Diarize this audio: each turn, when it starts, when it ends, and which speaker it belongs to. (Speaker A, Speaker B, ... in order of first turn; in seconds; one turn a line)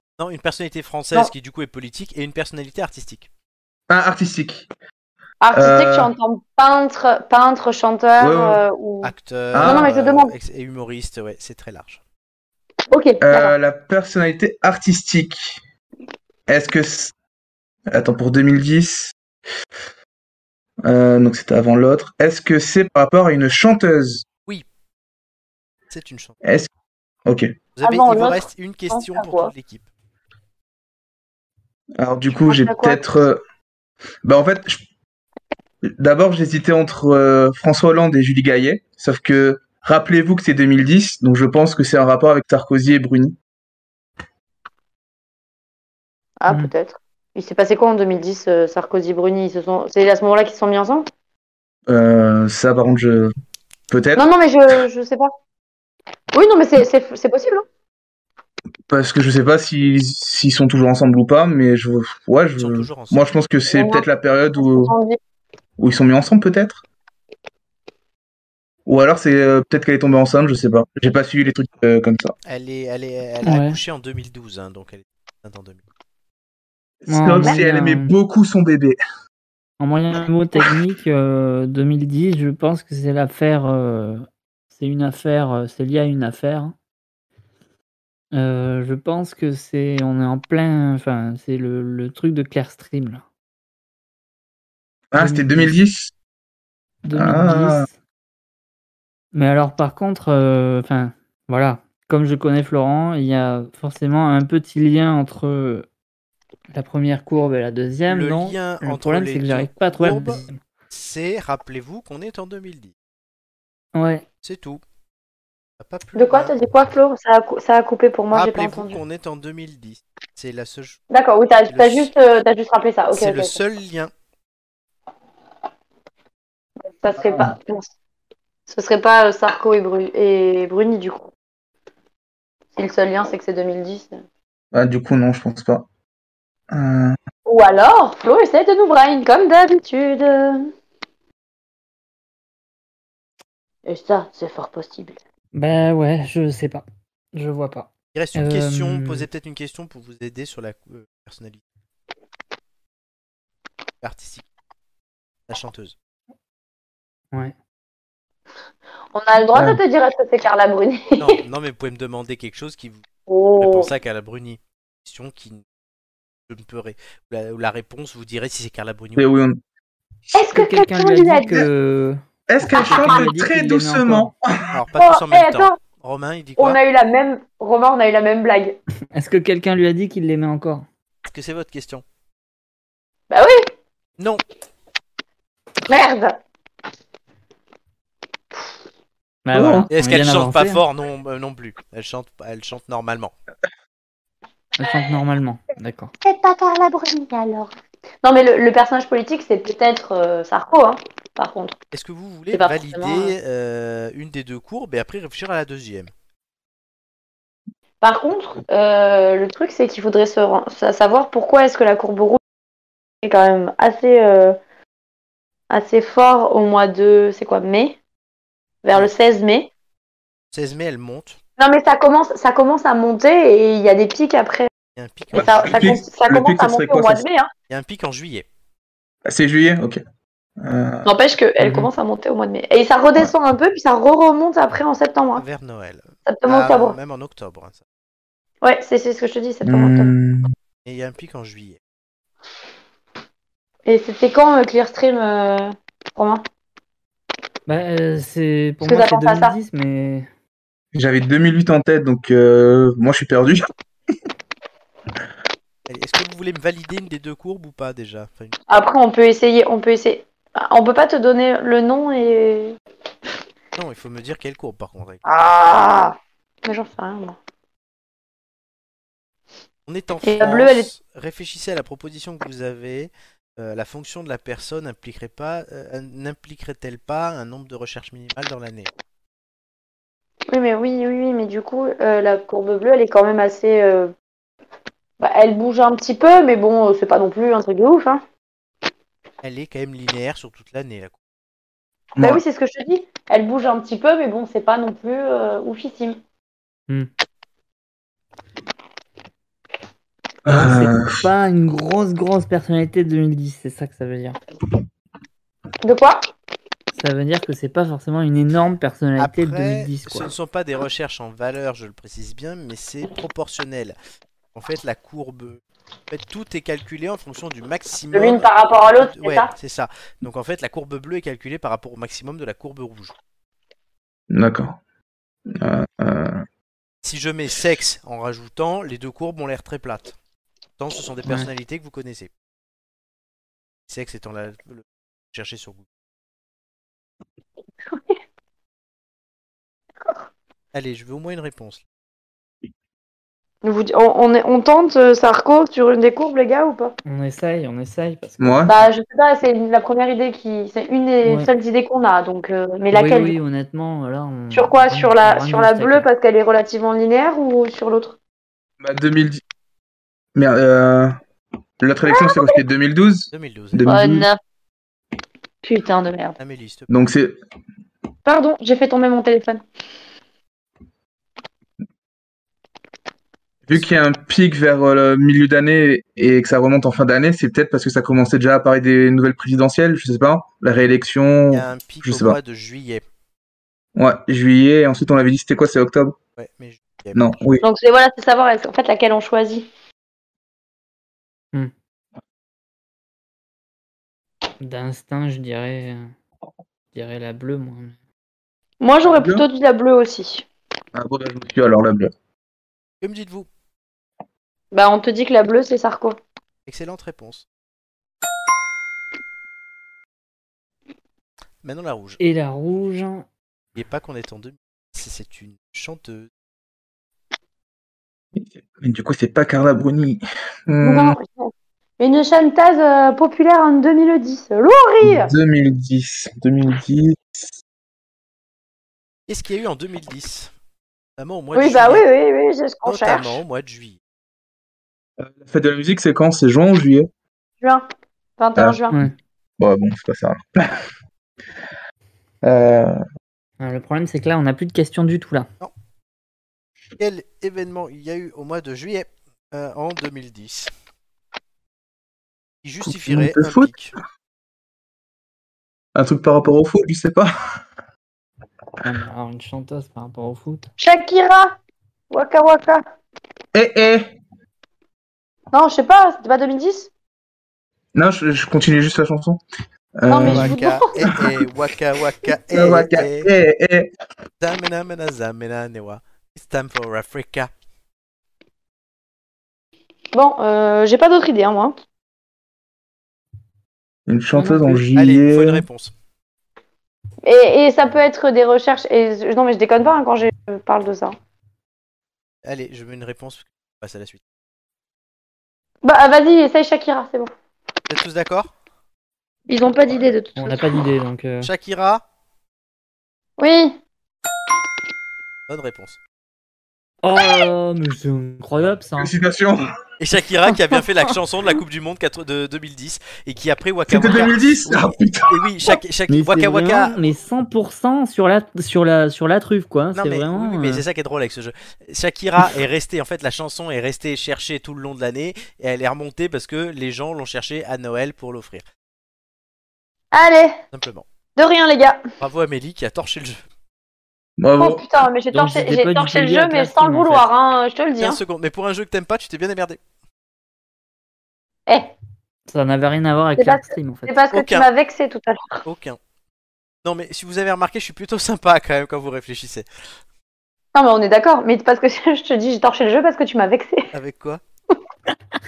Speaker A: 0.2-3.3
Speaker B: 3.9-4.7
Speaker C: 5.4-10.3
Speaker B: 5.5-6.1
Speaker B: 8.2-8.6
Speaker A: 9.0-12.0
Speaker B: 9.5-9.9
Speaker C: 12.9-13.5
Speaker B: 13.2-15.6
Speaker B: 16.5-17.1
Speaker B: 17.9-19.1
Speaker B: 20.8-24.2
Speaker A: 25.9-26.4
Speaker B: 26.4-26.7
Speaker B: 27.2-27.5
Speaker A: 27.8-29.9
Speaker C: 27.8-29.5
Speaker B: 32.0-33.4
Speaker C: 32.3-33.1
Speaker B: 34.2-34.8
Speaker B: 35.8-43.4
Speaker C: 46.4-51.0
Speaker B: 51.9-53.3
Speaker B: 53.9-54.3
Speaker C: 54.1-55.3
Speaker C: 56.3-57.6
Speaker B: 58.9-64.9
Speaker A: 62.6-63.3
Speaker C: 63.7-64.0
Speaker C: 64.6-65.2
Speaker B: 65.8-66.8
Speaker B: 68.8-72.3
Speaker A: 72.4-75.8
Speaker D: 73.4-73.8
Speaker B: 77.0-79.0
Speaker D: 77.1-78.1
Speaker D: 79.8-86.7
Speaker D: 88.3-93.2
Speaker B: 95.1-96.1
Speaker D: 95.2-95.7
Speaker D: 97.0-97.9
Speaker B: 97.1-97.9
Speaker D: 99.3-105.8
Speaker D: 106.7-110.6
Speaker A: 108.1-112.9
Speaker D: 113.9-114.2
Speaker A: 114.4-114.8
Speaker A: 115.8-116.5
Speaker C: 116.1-119.0
Speaker A: 118.3-121.0
Speaker C: 121.1-123.6
Speaker A: 121.7-122.1
Speaker A: 123.1-124.1
Speaker C: 127.0-127.9
Speaker C: 128.7-131.3
Speaker C: 132.7-134.2
Speaker B: 134.7-135.8
Speaker B: 136.7-137.2
Speaker C: 137.4-140.7
Speaker C: 143.8-145.2
Speaker D: 145.5-149.3
Speaker A: 148.1-151.6
Speaker A: 154.0-154.4
Speaker A: 155.5-155.9
Speaker C: 159.1-161.4
Speaker B: 159.5-159.8
Speaker A: 161.2-163.0
Speaker C: 163.3-163.9
Speaker A: 163.6-165.6
Speaker A: 166.5-169.3
Speaker B: 169.2-169.6
Speaker C: 170.3-171.7
Speaker D: 170.5-174.3
Speaker B: 172.5-174.7
Speaker C: 172.8-173.2
Speaker A: 174.7-176.8
Speaker C: 175.0-175.8
Speaker C: 176.6-178.8
Speaker D: 179.1-180.8
Speaker A: 181.2-182.0
Speaker C: 183.3-183.7
Speaker C: 185.9-186.4
Speaker D: 189.4-190.8
Speaker B: 189.5-189.9
Speaker A: 189.9-193.3
Speaker D: 194.8-196.1
Speaker C: 196.2-197.7
Speaker C: 198.2-201.8
Speaker A: 201.9-206.1
Speaker C: 202.5-203.3
Speaker C: 208.0-212.4
Speaker C: 213.2-214.6
Speaker C: 215.7-218.0
Speaker C: 218.8-219.7
Speaker A: 220.5-221.4
Speaker C: 221.6-224.7
Speaker A: 224.9-225.9
Speaker B: 225.3-227.2
Speaker C: 225.3-227.5
Speaker A: 227.7-228.4
Speaker B: 229.2-230.0
Speaker B: 230.6-231.1
Speaker C: 231.0-235.4
Speaker D: 231.6-231.9
Speaker A: 235.3-237.8
Speaker C: 236.3-236.9
Speaker C: 238.6-240.1
Speaker B: 239.6-240.5
Speaker A: 240.8-241.8
Speaker C: 243.8-246.4
Speaker D: 247.7-250.3
Speaker C: 248.8-249.6
Speaker B: 250.9-253.7
Speaker A: 255.9-258.6
Speaker C: 258.7-262.7
Speaker A: 263.8-265.2
Speaker C: 265.2-267.4
Speaker A: 269.9-278.9
Speaker C: 270.2-270.9
Speaker C: 280.5-284.1
Speaker C: 285.2-288.2
Speaker A: 289.4-291.1
Speaker B: 292.1-292.4
Speaker C: 292.2-296.2
Speaker B: 300.4-301.2
Speaker D: 300.5-304.4
Speaker C: 305.8-306.2
Speaker D: 306.9-310.3
Speaker A: 309.2-313.9
Speaker A: 314.5-323.1
Speaker C: 318.1-319.5
Speaker B: 324.3-324.8
Speaker B: 325.5-326.4
Speaker A: 327.0-330.1
Speaker A: 330.8-332.3
Speaker A: 333.9-335.8
Speaker A: 340.7-341.8
Speaker C: 343.6-346.9
Speaker D: 347.1-348.8
Speaker B: 348.4-348.8
Speaker C: 348.6-353.4
Speaker D: 351.2-351.5
Speaker D: 352.9-356.1
Speaker C: 354.5-358.1
Speaker B: 358.8-359.4
Speaker B: 360.3-361.2
Speaker B: 361.8-364.3
Speaker C: 362.1-362.6
Speaker A: 363.3-364.1
Speaker C: 363.9-364.4
Speaker C: 365.6-366.4
Speaker A: 366.4-366.9
Speaker B: 366.9-367.4
Speaker C: 368.2-369.6
Speaker B: 373.7-382.4
Speaker A: 381.5-383.0
Speaker B: 383.9-386.1
Speaker A: 386.4-387.3
Speaker B: 387.1-387.6
Speaker C: 387.6-389.7
Speaker D: 394.6-396.1
Speaker D: 396.9-397.9
Speaker C: 398.8-400.4
Speaker B: 399.0-399.4
Speaker B: 400.9-402.1
Speaker A: 403.0-403.5
Speaker C: 404.7-406.2
Speaker A: 406.7-407.4
Speaker A: 411.6-412.2
Speaker D: 412.2-413.2
Speaker A: 413.7-416.3
Speaker B: 418.3-421.2
Speaker C: 420.8-425.3
Speaker B: 425.0-427.5
Speaker A: 429.3-430.5
Speaker A: 431.2-432.1
Speaker C: 431.5-433.4
Speaker A: 432.8-434.0
Speaker B: 435.2-437.1
Speaker C: 438.4-439.0
Speaker B: 439.6-440.8
Speaker B: 442.4-443.0
Speaker D: 443.6-445.5
Speaker A: 447.0-450.7
Speaker A: 452.6-453.9
Speaker B: 452.9-453.7
Speaker B: 455.9-457.3
Speaker D: 458.8-460.7
Speaker C: 460.8-461.5
Speaker C: 462.1-462.8
Speaker B: 463.5-464.1
Speaker C: 465.5-466.9
Speaker B: 467.9-469.4
Speaker B: 470.0-471.3
Speaker C: 470.1-470.9
Speaker A: 470.2-473.3
Speaker B: 472.5-473.9
Speaker A: 474.4-477.5
Speaker C: 480.1-481.8
Speaker B: 484.1-485.6
Speaker D: 484.4-484.8
Speaker A: 484.9-485.9
Speaker C: 487.2-491.1
Speaker A: 492.4-494.2
Speaker C: 495.8-497.3
Speaker A: 497.9-498.5
Speaker C: 499.5-500.8
Speaker D: 500.4-501.5
Speaker A: 501.4-502.0
Speaker C: 503.4-503.8
Speaker A: 505.5-506.0
Speaker D: 507.0-509.1
Speaker B: 509.0-509.7
Speaker A: 510.0-517.0
Speaker B: 513.9-515.7
Speaker D: 516.1-520.8
Speaker A: 519.9-528.6
Speaker C: 530.1-530.6
Speaker A: 530.7-531.0
Speaker C: 531.4-532.0
Speaker A: 532.2-533.4
Speaker B: 534.4-534.8
Speaker C: 534.6-538.2
Speaker D: 535.3-537.2
Speaker A: 538.0-539.8
Speaker C: 541.7-541.9
Speaker D: 542.5-544.1
Speaker C: 543.4-545.6
Speaker A: 544.3-544.7
Speaker A: 545.6-546.0
Speaker A: 546.8-549.7
Speaker C: 550.7-553.8
Speaker A: 553.9-554.4